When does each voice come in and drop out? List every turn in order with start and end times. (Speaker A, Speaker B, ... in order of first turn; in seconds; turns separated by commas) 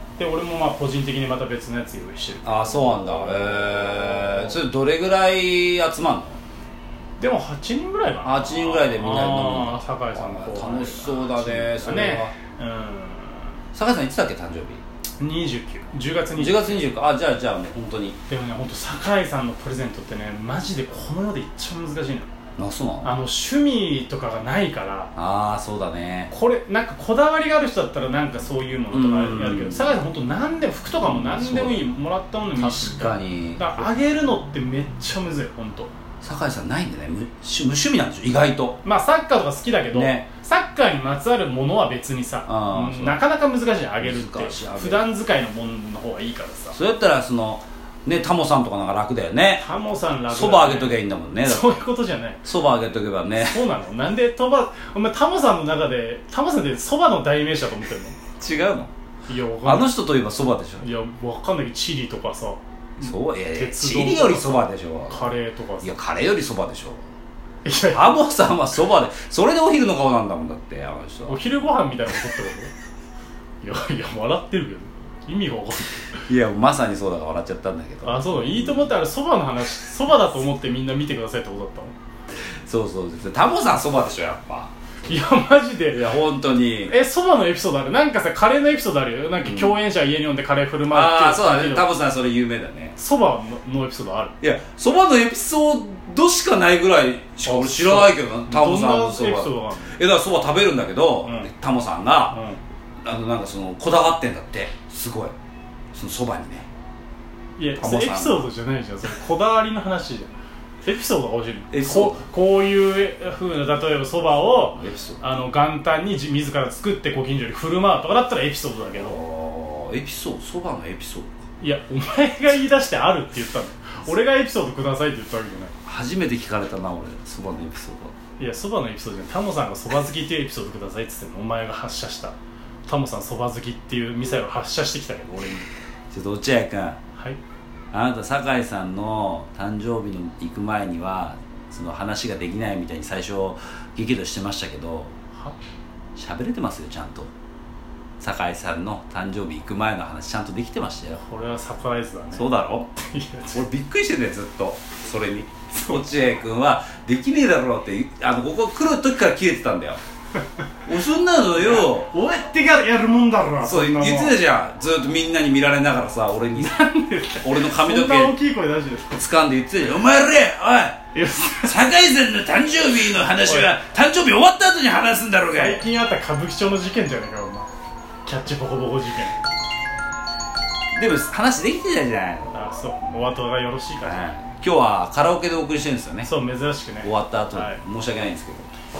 Speaker A: 0.2-4.6, Speaker B: 2.4-6.4, Speaker A: 7.2-13.5, Speaker B: 8.2-12.3, Speaker B: 13.7-14.8, Speaker A: 15.2-16.8, Speaker B: 16.4-18.2, Speaker A: 18.3-22.3, Speaker B: 22.6-23.1, Speaker A: 23.0-25.1, Speaker B: 25.1-26.3, Speaker A: 26.3-35.9, Speaker B: 28.9-29.9, Speaker B: 31.0-31.9, Speaker B: 32.5-33.9, Speaker B: 36.2-38.8, Speaker A: 38.8-46.8, Speaker B: 39.9-40.2, Speaker B: 42.5-43.2, Speaker B: 44.0-45.1, Speaker B: 46.7-49.6, Speaker A: 49.6-52.4, Speaker B: 50.3-51.8, Speaker B: 52.4-53.6, Speaker A: 53.4-58.2, Speaker B: 58.4-58.9, Speaker A: 59.3-59.9, Speaker B: 59.6-60.9, Speaker A: 60.8-65.9, Speaker B: 63.0-65.3, Speaker B: 65.8-67.0, Speaker A: 67.6-68.2, Speaker B: 67.9-71.4, Speaker A: 71.3-72.7, Speaker A: 73.6-76.0, Speaker B: 76.3-78.9, Speaker A: 78.0-81.9, Speaker B: 82.6-84.7, Speaker A: 85.1-86.1, Speaker B: 85.9-86.9, Speaker A: 86.9-91.8, Speaker B: 89.4-89.7, Speaker B: 90.9-92.9, Speaker A: 93.0-94.3, Speaker B: 94.4-102.4, Speaker A: 97.4-100.0, Speaker A: 101.2-101.5, Speaker A: 102.3-102.6, Speaker B: 103.0-105.3, Speaker B: 105.9-106.7, Speaker A: 107.6-110.3, Speaker B: 107.8-108.5, Speaker A: 110.8-119.2, Speaker B: 111.7-112.2, Speaker B: 114.6-115.2, Speaker B: 118.9-121.4, Speaker A: 121.6-125.7, Speaker B: 125.8-128.1, Speaker A: 128.4-132.3, Speaker A: 132.9-135.7, Speaker B: 136.1-137.0, Speaker B: 137.9-145.1, Speaker B: 146.2-147.3, Speaker B: 148.2-151.2, Speaker A: 151.2-153.7, Speaker B: 152.3-152.9, Speaker B: 153.5-160.0, Speaker A: 155.7-156.0, Speaker B: 160.9-162.1, Speaker A: 161.6-164.4, Speaker B: 163.6-166.8, Speaker A: 166.5-169.2, Speaker B: 167.4-168.3, Speaker B: 169.1-175.8, Speaker A: 171.1-171.9, Speaker A: 173.4-173.7, Speaker A: 175.5-177.7, Speaker A: 178.2-179.4, Speaker B: 180.9-182.7, Speaker A: 182.5-184.4, Speaker B: 184.0-186.3, Speaker A: 186.2-187.8, Speaker B: 187.0-188.7